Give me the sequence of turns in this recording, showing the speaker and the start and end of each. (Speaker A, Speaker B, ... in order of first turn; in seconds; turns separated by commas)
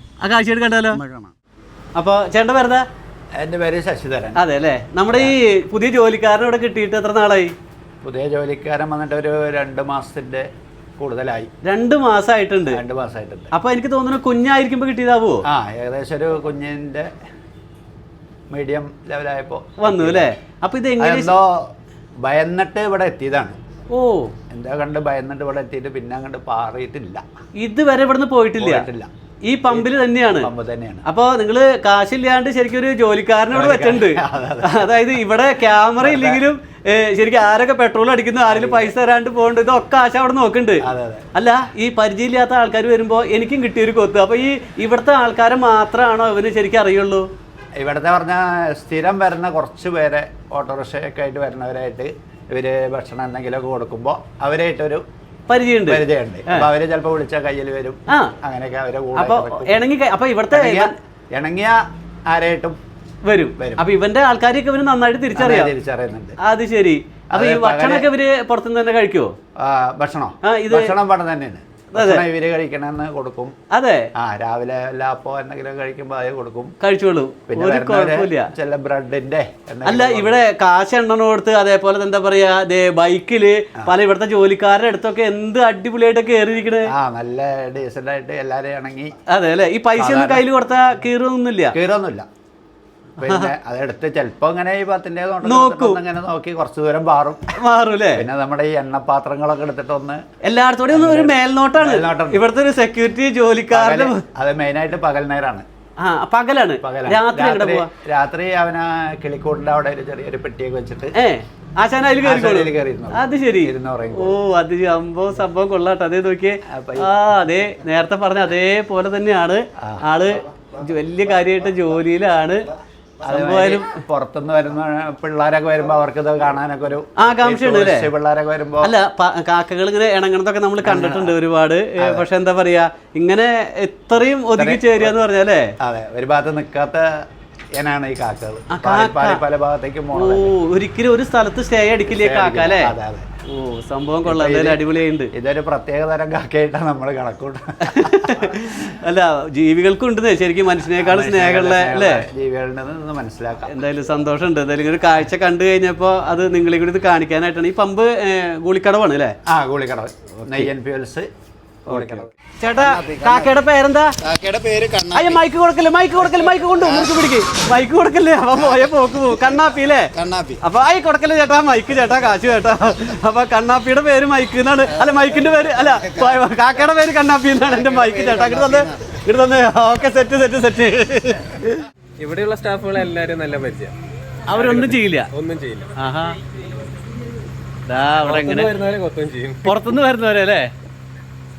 Speaker A: 0.2-1.0, Speaker B: 0.9-1.3, Speaker A: 1.9-2.8, Speaker B: 3.4-4.4, Speaker A: 4.3-7.5, Speaker B: 8.0-10.4, Speaker B: 11.0-11.5, Speaker A: 11.6-12.8, Speaker B: 12.7-13.5, Speaker A: 13.5-15.4, Speaker B: 15.5-17.1, Speaker B: 18.5-20.3, Speaker A: 19.8-21.3, Speaker B: 21.0-21.7, Speaker B: 22.2-23.6, Speaker A: 23.9-24.3, Speaker B: 24.5-27.2, Speaker A: 27.6-28.9, Speaker B: 28.6-29.1, Speaker A: 29.5-30.5, Speaker B: 29.7-31.0, Speaker A: 31.0-40.8, Speaker B: 33.5-34.9, Speaker B: 36.0-36.4, Speaker B: 38.5-38.9, Speaker B: 40.8-41.3, Speaker A: 41.3-47.2, Speaker B: 47.8-55.0, Speaker A: 55.5-56.7, Speaker B: 55.9-59.8, Speaker A: 59.1-60.9, Speaker B: 60.5-62.8, Speaker A: 63.2-65.7, Speaker B: 63.6-63.8, Speaker B: 65.3-66.3, Speaker A: 66.4-69.3, Speaker B: 67.3-68.1, Speaker B: 69.6-73.5, Speaker A: 70.4-71.0, Speaker A: 71.9-72.2, Speaker A: 73.7-74.1, Speaker B: 74.2-76.7, Speaker A: 76.8-78.5, Speaker B: 77.5-80.4, Speaker A: 79.8-86.9, Speaker B: 86.9-89.1, Speaker A: 89.3-91.7, Speaker B: 90.0-90.4, Speaker B: 91.7-92.2, Speaker B: 93.2-97.4, Speaker A: 93.2-93.5, Speaker A: 95.4-96.0, Speaker A: 97.6-98.2, Speaker B: 98.1-100.2, Speaker A: 100.4-104.2, Speaker B: 100.9-102.4, Speaker B: 103.7-105.6, Speaker A: 106.0-107.9, Speaker B: 106.8-111.1, Speaker A: 111.1-122.7, Speaker B: 112.2-114.4, Speaker B: 116.7-117.1, Speaker B: 119.8-120.0, Speaker B: 123.2-128.9, Speaker A: 123.2-124.0, Speaker A: 127.2-128.1, Speaker A: 128.8-135.7, Speaker B: 130.8-131.4, Speaker B: 132.0-132.2, Speaker B: 134.6-135.1, Speaker B: 135.8-137.1, Speaker B: 137.8-140.5, Speaker A: 138.7-139.4, Speaker A: 140.2-142.9, Speaker B: 142.1-143.2, Speaker A: 143.5-145.3, Speaker B: 144.2-144.8, Speaker B: 145.3-148.8, Speaker A: 147.8-152.2, Speaker B: 150.9-153.7, Speaker A: 153.7-159.3, Speaker B: 159.5-161.3, Speaker B: 161.9-163.5, Speaker A: 161.9-164.2, Speaker B: 164.2-165.4, Speaker A: 165.1-181.8, Speaker B: 166.6-167.2, Speaker B: 168.6-169.4, Speaker B: 170.1-170.6, Speaker B: 178.2-178.9, Speaker C: 182.2-183.9, Speaker A: 184.5-185.3, Speaker C: 184.5-185.9, Speaker A: 186.0-186.4, Speaker A: 187.8-188.7, Speaker C: 188.2-189.7, Speaker A: 189.6-190.7